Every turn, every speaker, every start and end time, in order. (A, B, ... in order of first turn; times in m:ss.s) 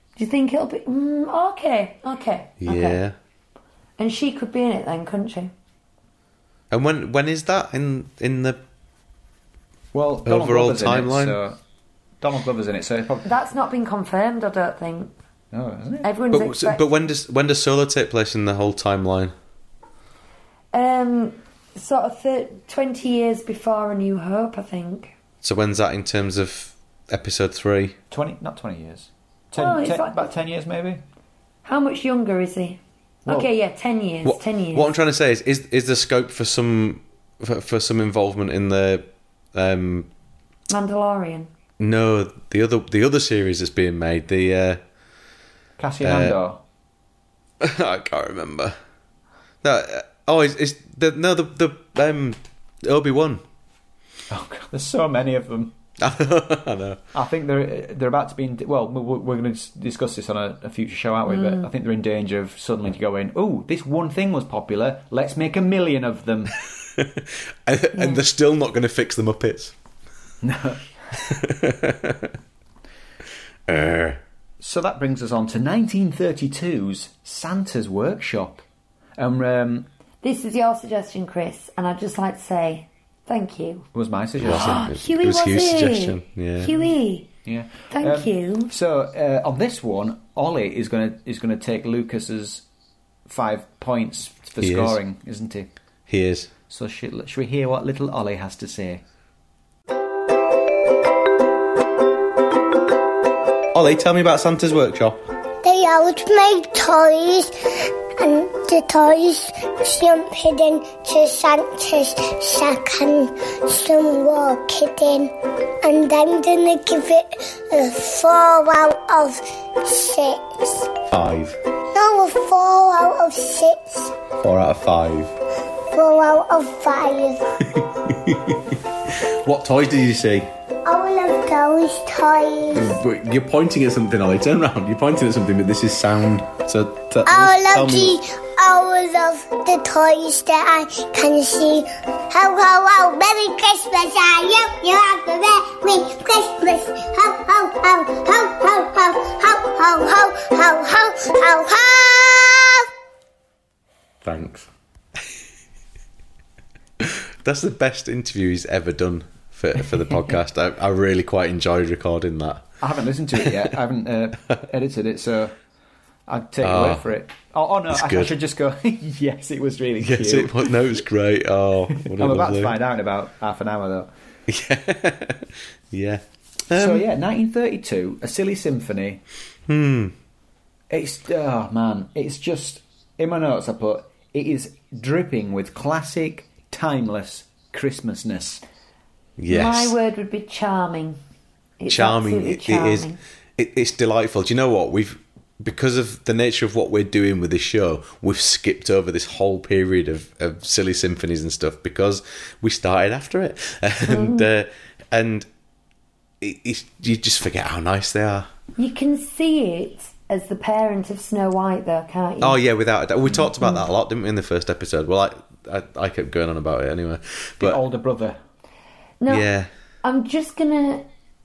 0:00.2-0:03.0 A
0:02.6-0:03.1 B
0:04.0-0:05.5 A
0:06.7-0:08.6 B
0:09.9-0:11.6 C
0:10.2-0:11.4 B
0:12.2-0:13.3 C
0:13.2-0:15.1 A
0:15.5-0:16.1 C
0:16.0-0:16.8 A
0:16.3-0:19.3 B
0:20.7-0:25.1 A
0:25.4-0:28.0 B
0:28.1-0:31.0 C
0:29.6-0:30.3 A
0:31.6-0:34.9 A
0:34.2-0:40.1 B
0:40.7-0:41.5 A
0:41.8-0:44.8 B
0:45.8-0:46.6 C
0:46.0-0:46.4 B
0:47.6-0:48.8 B
0:49.6-0:53.4 B
0:54.3-0:55.7 C
0:56.0-0:57.0 B
0:57.1-1:06.6 C
1:01.3-1:01.7 A
1:06.8-1:09.7 B
1:07.9-1:08.2 A
1:10.4-1:10.9 C
1:11.3-1:12.3 B
1:13.7-1:14.2 B
1:14.6-1:18.6 C
1:19.2-1:19.9 C
1:20.2-1:23.9 A
1:23.9-1:24.8 C
1:24.4-1:26.8 B
1:24.4-1:27.3 A
1:27.4-1:32.6 C
1:27.9-1:28.7 A
1:33.3-1:35.7 C
1:34.6-1:35.0 B
1:36.1-1:36.5 B
1:36.7-1:39.0 C
1:43.7-1:45.2 B
1:45.6-2:00.9 D
2:01.1-2:01.6 B
2:01.9-2:04.1 D
2:04.4-2:05.3 B
2:05.9-2:07.4 D
2:07.6-2:10.5 B
2:10.8-2:12.9 D
2:12.7-2:18.2 B
2:17.3-2:32.9 D
2:34.2-2:34.7 C
2:37.0-2:42.7 B
2:42.8-2:45.6 C
2:43.4-2:43.7 B
2:46.3-2:50.7 C
2:46.6-2:47.0 B
2:47.9-2:48.4 B
2:50.0-2:52.8 B
2:52.0-2:54.1 C
2:54.5-2:57.0 B
2:56.7-2:59.2 C
2:59.7-3:00.1 B
3:00.9-3:08.6 C
3:09.4-3:10.0 B
3:09.5-3:11.2 A
3:11.8-3:13.2 A
3:11.9-3:25.5 B
3:24.1-3:24.5 A
3:26.4-3:28.5 B
3:28.8-3:32.6 A
3:32.4-3:37.8 B
3:37.6-3:38.4 C
3:39.2-3:39.5 A
3:39.3-3:39.7 B
3:40.0-3:41.1 A